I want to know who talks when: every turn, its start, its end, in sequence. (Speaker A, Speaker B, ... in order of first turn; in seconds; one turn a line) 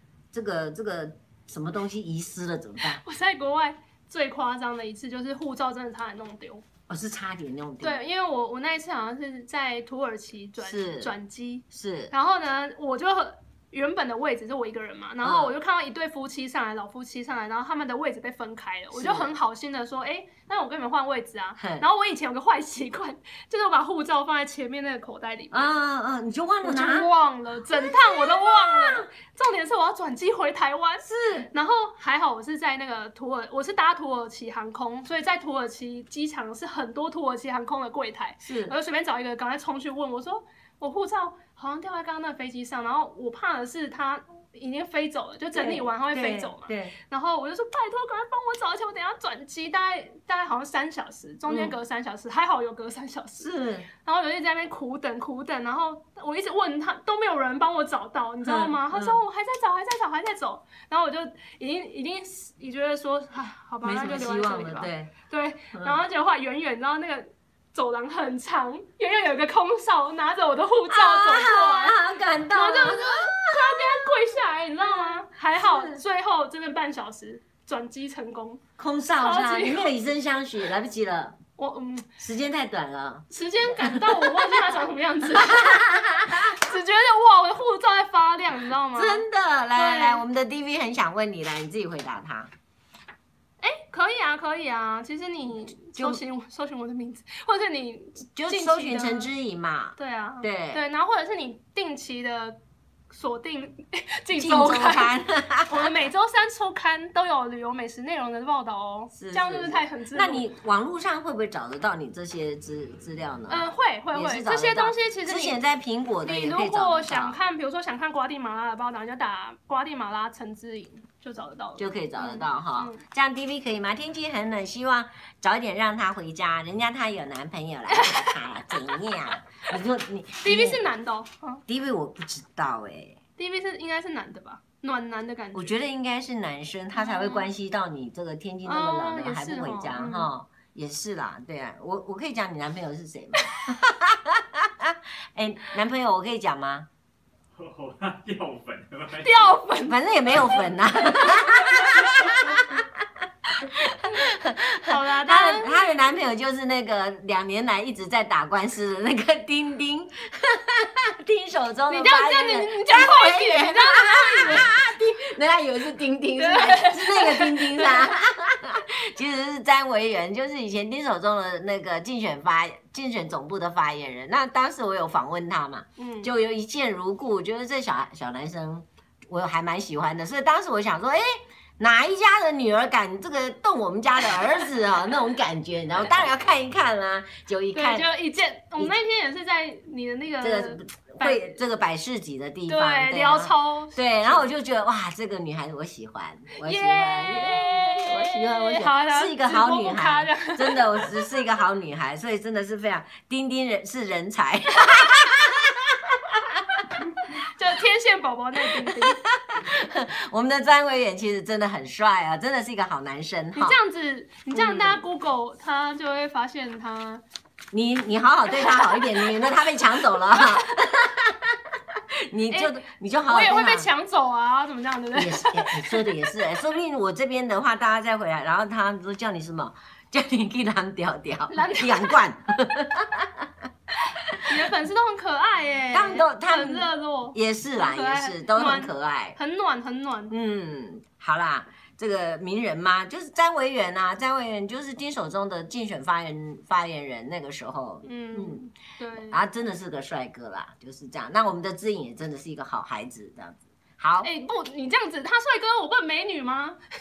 Speaker A: 0.3-3.0
Speaker B: 2.8-6.7
Speaker A: 6.9-8.0
Speaker B: 7.8-25.7
Speaker A: 10.6-11.1
Speaker A: 11.7-12.1
Speaker A: 15.2-15.5
Speaker A: 18.9-19.3
Speaker A: 21.6-21.9
Speaker A: 25.5-27.1
Speaker B: 26.6-72.0
Speaker A: 27.8-29.1
Speaker A: 31.1-31.5
Speaker A: 38.4-38.8
Speaker A: 45.5-47.0
Speaker A: 51.5-51.8
Speaker A: 53.4-53.9
Speaker A: 58.4-59.2
Speaker A: 63.8-65.1
Speaker A: 65.7-66.0
Speaker A: 70.9-74.1
Speaker B: 72.5-78.6
Speaker A: 74.8-76.0
Speaker A: 78.8-81.4
Speaker B: 79.2-80.0
Speaker B: 81.6-82.1
Speaker A: 82.2-84.7
Speaker B: 83.3-90.2
Speaker A: 85.3-86.6
Speaker A: 89.0-92.5
Speaker B: 93.6-99.3
Speaker A: 95.9-96.2
Speaker A: 98.3-100.8
Speaker B: 100.0-105.2
Speaker A: 104.3-105.9
Speaker B: 105.7-110.5
Speaker A: 109.2-117.4
Speaker B: 113.5-115.6
Speaker B: 116.2-123.0
Speaker A: 121.8-130.8
Speaker B: 127.9-129.4
Speaker B: 130.4-131.6
Speaker A: 131.7-133.2
Speaker B: 133.4-135.8
Speaker A: 135.5-146.9
Speaker B: 136.9-137.5
Speaker B: 138.6-140.3
Speaker C: 147.5-149.6
Speaker B: 149.2-152.3
Speaker A: 149.8-152.9
Speaker A: 153.6-188.1
Speaker B: 154.9-155.9
Speaker B: 161.9-164.8
Speaker B: 166.4-168.1
Speaker B: 176.0-176.3
Speaker B: 187.7-191.6
Speaker A: 190.4-206.7
Speaker B: 192.7-194.5
Speaker B: 196.6-201.3
Speaker B: 207.3-209.2
Speaker A: 208.6-213.8
Speaker B: 213.6-217.2
Speaker A: 214.5-215.1
Speaker A: 217.7-221.8
Speaker B: 218.5-219.5
Speaker B: 220.0-220.7
Speaker A: 222.3-223.9
Speaker B: 222.5-226.4
Speaker A: 225.1-233.5
Speaker B: 231.5-232.2
Speaker B: 234.4-240.3
Speaker A: 235.9-239.4
Speaker A: 240.3-248.6
Speaker B: 248.0-249.4
Speaker A: 249.2-254.3
Speaker B: 254.2-256.8